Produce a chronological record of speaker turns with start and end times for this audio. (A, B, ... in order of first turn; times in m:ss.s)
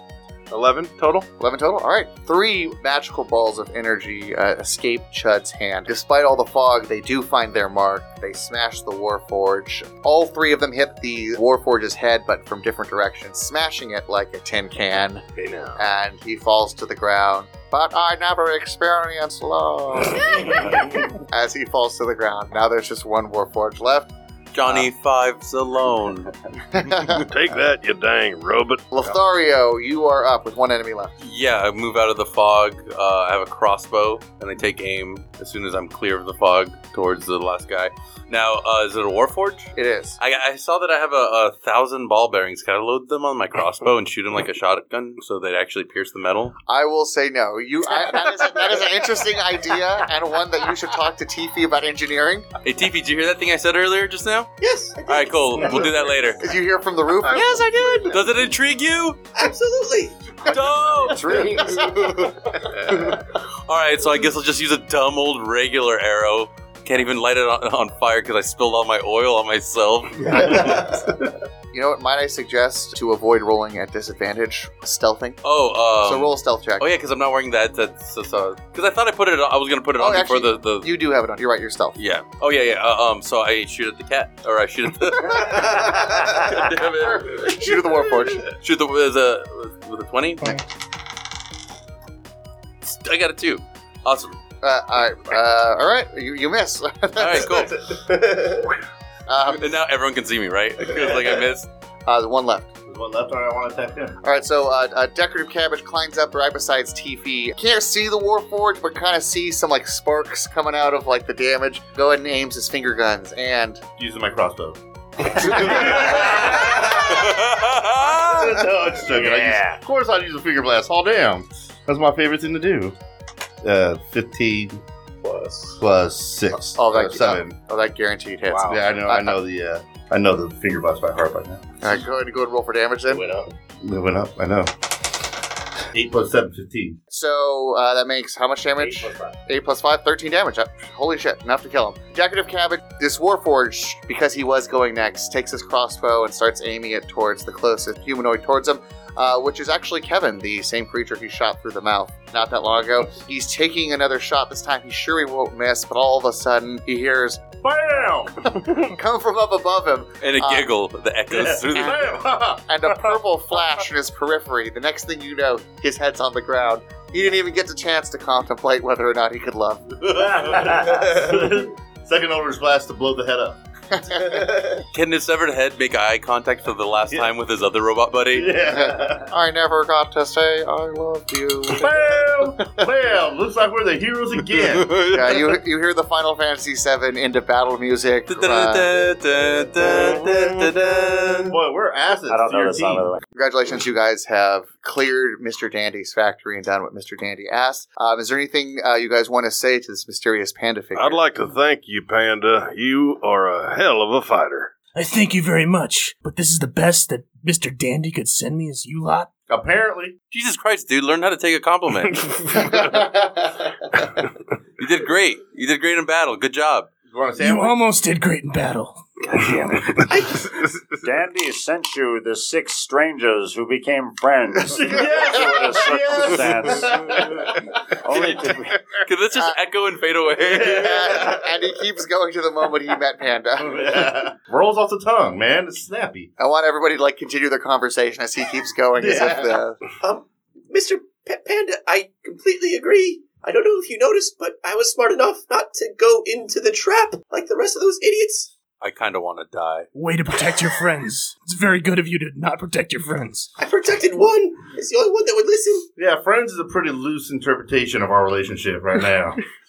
0:00.5-0:01.3 A
0:01.4-0:15.2 B
0:15.4-0:15.8 A
0:15.8-0:24.1 B
0:24.5-0:26.3 C
0:26.7-0:27.2 B
0:27.2-0:29.0 A
0:28.9-0:31.1 B
0:31.2-0:46.5 C
0:39.8-0:40.2 B
0:46.7-0:52.4 B
0:52.6-0:54.5 C
0:54.6-0:56.2 D
0:55.0-0:56.4 C
0:56.4-0:57.6 B
0:57.3-0:58.1 D
0:58.1-0:59.2 C
0:59.3-1:01.0 D
1:00.4-1:10.7 C
1:01.1-1:01.7 E
1:11.7-1:15.4 B
1:15.4-1:20.9 C
1:16.0-1:16.8 B
1:20.0-1:22.0 B
1:22.0-1:27.5 C
1:27.1-1:28.4 B
1:28.5-1:30.6 C
1:32.8-1:34.4 C
1:34.6-1:37.6 B
1:37.2-1:37.7 C
1:37.7-1:38.7 D
1:39.3-1:39.8 B
1:39.6-1:41.7 C
1:42.0-1:42.7 B
1:42.9-1:44.2 F
1:44.2-1:53.8 B
1:54.0-1:57.4 F
1:57.0-1:58.6 C
1:58.0-2:03.0 F
1:59.1-1:59.8 E
2:03.6-2:04.8 F
2:05.2-2:05.8 D
2:05.8-2:07.5 F
2:06.5-2:09.4 B
2:08.6-2:11.7 F
2:11.8-2:13.2 B
2:13.1-2:13.6 D
2:13.8-2:14.9 F
2:15.9-2:17.0 F
2:17.1-2:37.5 B
2:37.6-2:38.5 F
2:38.5-2:40.7 B
2:40.2-2:42.1 C
2:41.3-2:43.2 F
2:42.6-2:49.9 B
2:50.1-2:53.6 F
2:53.9-2:54.5 B
2:54.9-2:58.5 C
2:58.3-2:59.3 F
2:58.6-3:01.9 B
3:01.8-3:05.1 F
3:04.8-3:05.3 C
3:05.0-3:08.9 B
3:08.3-3:11.6 C
3:11.5-3:13.1 F
3:12.3-3:13.2 E
3:13.3-3:21.2 B
3:21.0-3:24.7 A
3:24.9-3:29.3 G
3:29.5-3:30.1 F
3:30.3-3:32.2 C
3:32.3-3:33.1 A
3:32.7-3:33.4 B
3:34.8-3:36.9 C
3:37.1-3:37.8 F
3:37.4-3:39.0 G
3:39.4-3:40.0 A
3:40.1-3:40.4 D
3:41.0-3:47.3 E
3:44.6-3:47.5 F
3:48.0-3:48.8 E
3:49.0-3:51.2 C
3:50.4-3:51.4 F
3:50.6-3:54.2 B
3:53.6-3:56.3 F
3:56.4-3:59.8 B
3:59.0-3:59.6 F
4:00.0-4:08.5 D
4:08.8-4:09.9 C
4:09.9-4:13.5 G
4:13.6-4:15.9 D
4:16.0-4:19.4 F